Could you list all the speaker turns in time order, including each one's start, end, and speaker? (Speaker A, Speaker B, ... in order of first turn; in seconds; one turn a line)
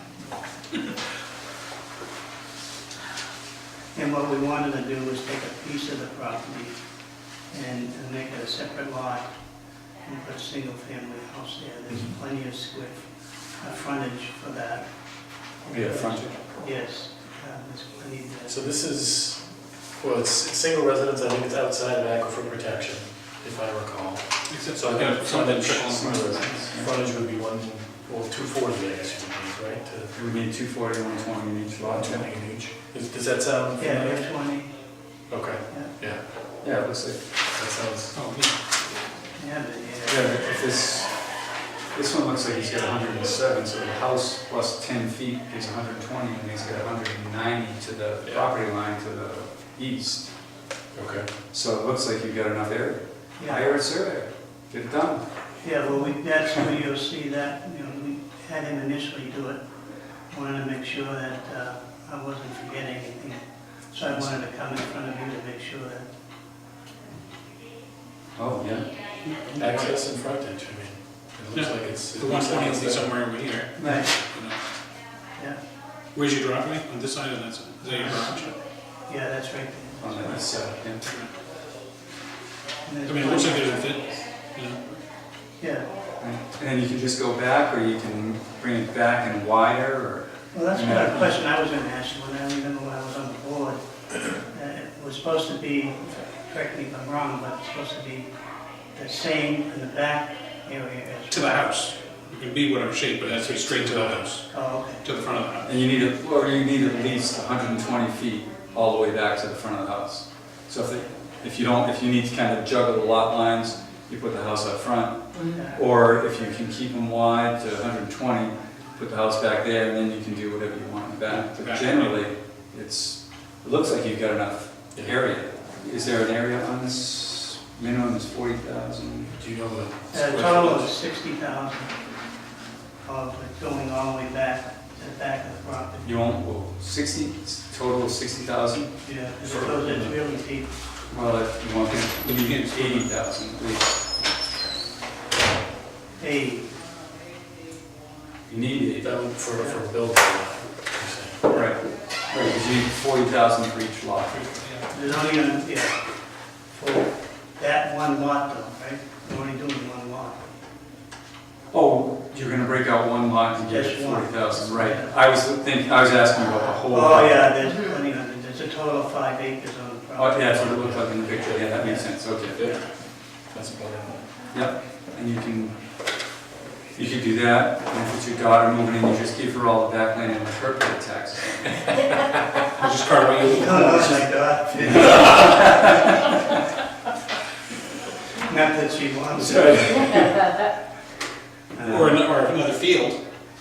Speaker A: 3.9-6.8
Speaker A: 7.5-9.3
Speaker A: 10.0-14.9
Speaker A: 15.6-18.6
Speaker B: 15.7-16.3
Speaker C: 18.5-19.5
Speaker C: 20.0-30.1
Speaker D: 24.5-26.1
Speaker B: 25.8-26.9
Speaker B: 30.1-32.3
Speaker C: 31.8-34.2
Speaker A: 33.8-34.7
Speaker C: 35.3-36.2
Speaker B: 36.6-37.2
Speaker C: 37.5-38.2
Speaker D: 38.1-38.5
Speaker A: 39.3-40.3
Speaker B: 40.1-50.3
Speaker C: 50.9-51.3
Speaker B: 51.5-55.2
Speaker A: 53.4-53.7
Speaker A: 55.6-59.6
Speaker A: 60.3-66.1
Speaker B: 68.3-68.9
Speaker D: 69.2-69.9
Speaker C: 69.6-73.1
Speaker D: 71.5-74.6
Speaker A: 73.8-74.1
Speaker D: 76.1-78.5
Speaker A: 77.8-78.5
Speaker A: 79.0-80.5
Speaker B: 80.0-81.0
Speaker D: 81.0-81.3
Speaker A: 82.8-83.8
Speaker D: 83.0-84.8
Speaker A: 85.6-85.9
Speaker B: 86.2-91.4
Speaker A: 90.5-98.3
Speaker A: 98.9-101.8
Speaker D: 101.3-105.7
Speaker C: 103.2-104.2
Speaker A: 104.5-105.0
Speaker B: 105.6-129.3
Speaker A: 115.5-115.8
Speaker D: 121.3-122.2
Speaker C: 129.3-130.9
Speaker A: 130.1-132.0
Speaker A: 133.0-136.2
Speaker B: 136.0-138.9
Speaker A: 139.0-140.8
Speaker C: 139.4-139.8
Speaker B: 139.8-140.1
Speaker B: 141.1-144.0
Speaker D: 142.2-143.1
Speaker A: 146.2-146.7
Speaker B: 148.5-149.2
Speaker C: 149.0-151.4
Speaker B: 151.4-154.5
Speaker D: 154.3-154.9
Speaker A: 154.9-156.0
Speaker A: 156.7-160.4
Speaker B: 161.7-167.5
Speaker A: 163.7-165.1
Speaker A: 166.9-170.5
Speaker B: 170.2-172.7
Speaker C: 170.5-171.6
Speaker A: 171.8-172.1
Speaker C: 172.4-172.8
Speaker C: 173.5-174.3
Speaker B: 174.5-175.8
Speaker B: 176.9-182.3
Speaker D: 182.8-184.1
Speaker A: 183.4-185.9
Speaker B: 183.6-184.1
Speaker D: 185.0-185.6
Speaker B: 185.1-185.9
Speaker A: 188.4-190.3
Speaker B: 189.4-190.3
Speaker A: 191.7-192.2
Speaker D: 191.8-193.2